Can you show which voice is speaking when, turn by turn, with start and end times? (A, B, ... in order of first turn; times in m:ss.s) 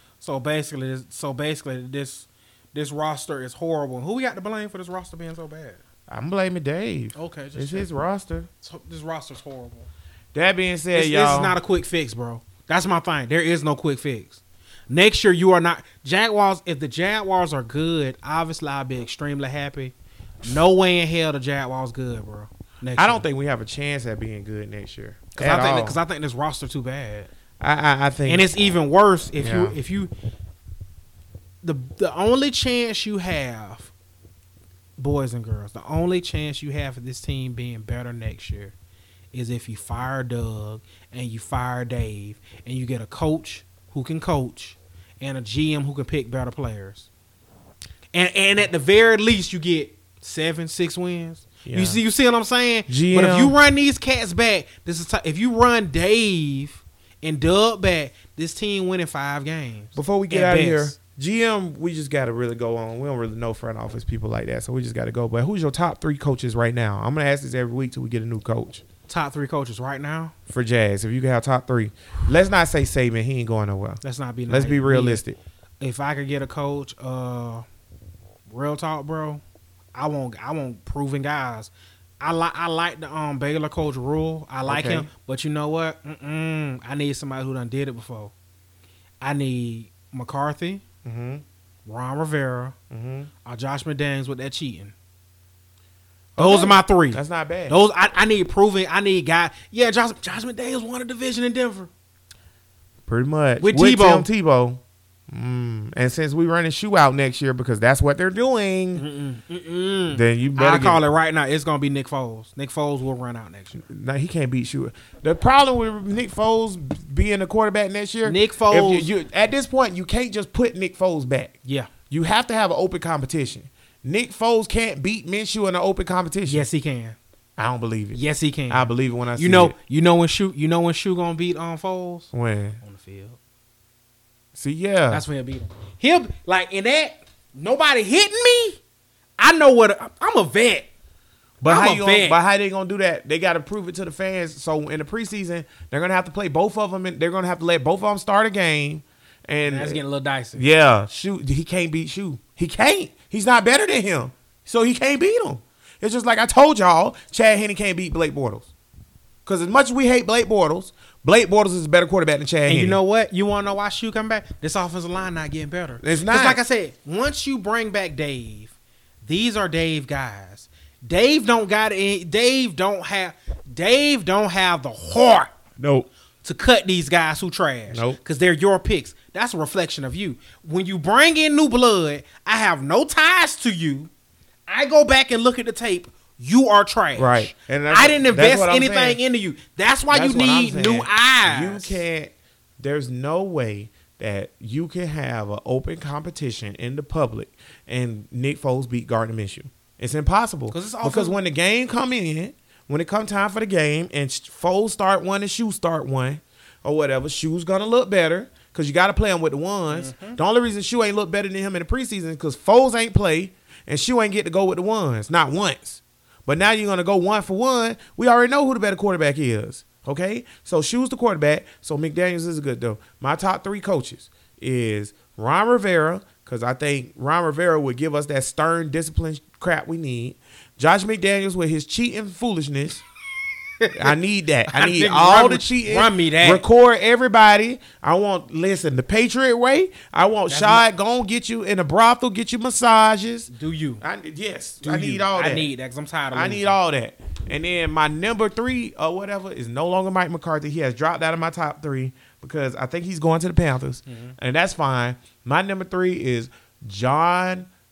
0:00.2-0:05.8 A
0:06.1-0:08.5 B
0:07.2-0:07.9 A
0:08.6-0:09.9 A
0:10.3-0:11.6 B
0:10.9-0:23.2 A
0:23.0-0:26.0 B
0:25.4-0:27.3 A
0:27.6-0:28.5 B
0:28.3-0:30.1 A
0:29.4-0:29.8 B
0:31.6-0:33.9 A
0:35.0-0:38.8 A
0:39.3-0:47.1 A
0:48.1-1:01.0 A
0:51.6-0:52.0 B
0:52.9-0:53.6 B
1:00.0-1:08.8 B
1:09.1-1:10.3 A
1:10.5-1:15.4 B
1:14.0-1:15.2 A
1:15.8-1:17.6 A
1:18.5-1:19.4 A
1:20.0-1:28.3 A
1:24.6-1:25.1 B
1:29.2-1:30.8 A
1:31.0-1:31.4 B
1:31.8-1:32.8 A
1:32.9-1:33.3 B
1:33.4-1:34.9 A
1:36.4-1:37.8 B
1:36.4-1:41.9 A
1:43.1-1:49.0 B
1:43.6-1:44.3 A
1:49.0-1:53.9 A
1:50.1-1:51.0 B
1:53.8-2:01.6 B
1:58.2-1:59.1 A
2:01.6-2:01.9 A
2:02.1-2:06.7 B
2:06.5-2:07.2 A
2:07.6-2:08.2 B
2:08.1-2:13.4 A
2:08.7-2:09.8 B
2:12.3-2:12.8 B
2:14.6-2:15.2 B
2:15.1-2:18.8 A
2:19.4-2:20.9 A
2:21.6-2:30.0 B
2:21.6-2:22.4 A
2:29.7-2:30.7 A
2:30.6-2:38.7 B
2:39.5-2:43.0 B
2:42.7-2:48.7 A
2:46.0-2:46.6 B
2:49.2-2:55.6 A
2:55.8-2:56.1 B
2:56.4-3:04.1 A
2:57.9-2:58.2 B
3:04.7-3:12.0 A
3:07.2-3:09.2 B
3:10.1-3:53.0 B
3:20.7-3:21.4 A
3:29.9-3:30.4 A
3:53.8-3:54.2 A
3:53.9-4:05.7 B
3:54.7-3:56.6 A
4:00.5-4:00.8 A
4:03.5-4:04.0 A
4:04.8-4:06.8 A
4:06.3-4:17.7 B
4:14.1-4:14.4 A